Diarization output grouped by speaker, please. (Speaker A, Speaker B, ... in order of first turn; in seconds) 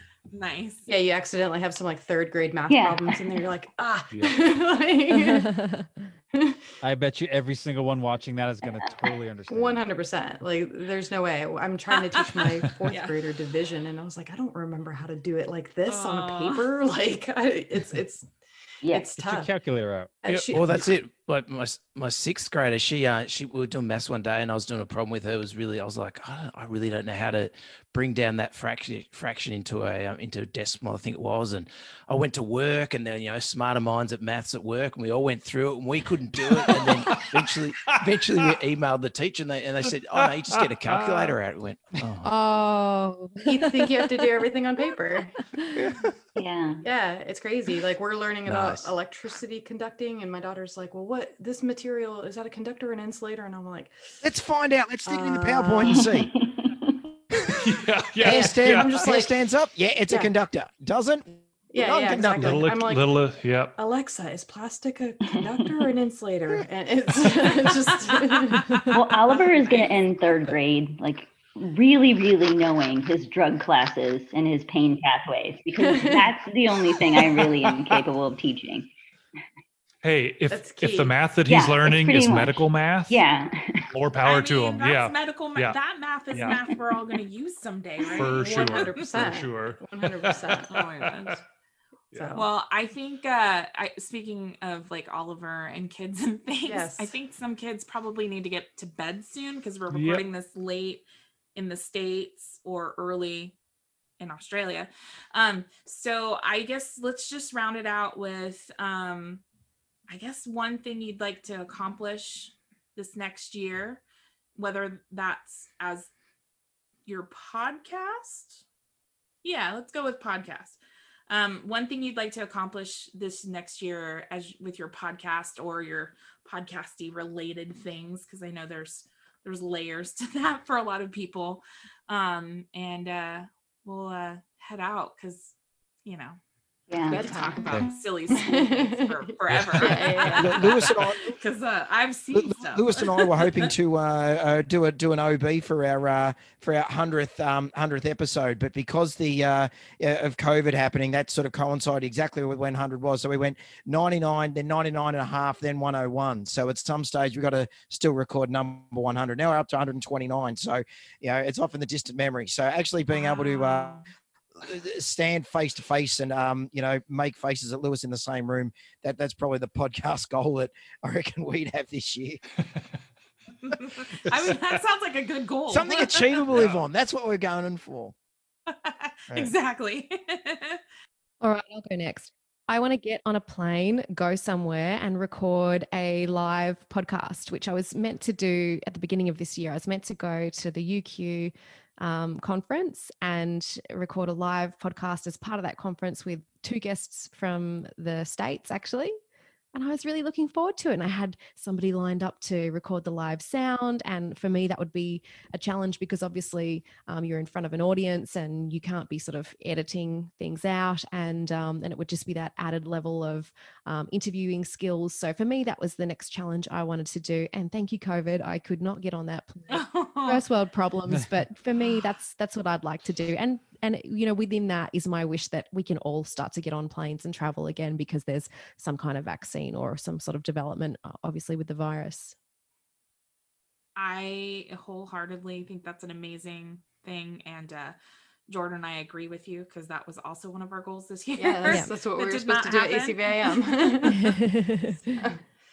Speaker A: 0.3-0.9, 12.2-13.1, 15.9-16.7, 84.2-88.8, 90.7-91.4, 92.3-103.5, 104.2-109.4, 110.1-114.0, 114.6-116.1, 117.1-118.6, 119.4-135.5, 136.1-136.4, 137.1-143.7, 163.1-164.1, 173.7-176.5, 178.7-180.8, 219.7-220.4, 234.0-238.0, 238.5-243.5
Speaker B: 0.9-5.5, 9.5-18.3, 18.9-19.5, 20.2-21.0, 43.5-45.4, 46.8-54.2, 55.1-56.1, 58.2-59.4, 60.1-60.3, 61.7-63.2, 63.8-69.8, 75.8-76.3, 77.1-77.6, 80.5-81.2, 88.2-90.7, 92.1-92.5, 96.6-97.1, 137.1-140.7, 241.4-244.3
Speaker C: 2.7-3.4, 8.6-9.1, 18.8-19.1, 46.4-46.9, 55.9-57.2, 65.3-65.9, 68.9-78.9, 81.5-83.9, 136.9-137.6
Speaker D: 5.1-6.0, 42.2-44.2, 181.4-199.2, 199.7-232.3, 241.7-241.9, 244.1-245.1
Speaker E: 6.8-9.8, 19.2-20.1
Speaker F: 20.3-42.3, 48.5-48.9
Speaker G: 36.4-38.6, 40.2-41.3, 57.4-59.0, 62.4-63.8, 80.0-83.2, 83.9-85.8, 88.2-91.4, 99.9-100.2, 139.6-139.9, 176.5-176.8
Speaker H: 54.2-56.3, 58.2-62.7, 140.4-141.4, 142.3-164.0, 164.6-172.4, 175.7-178.2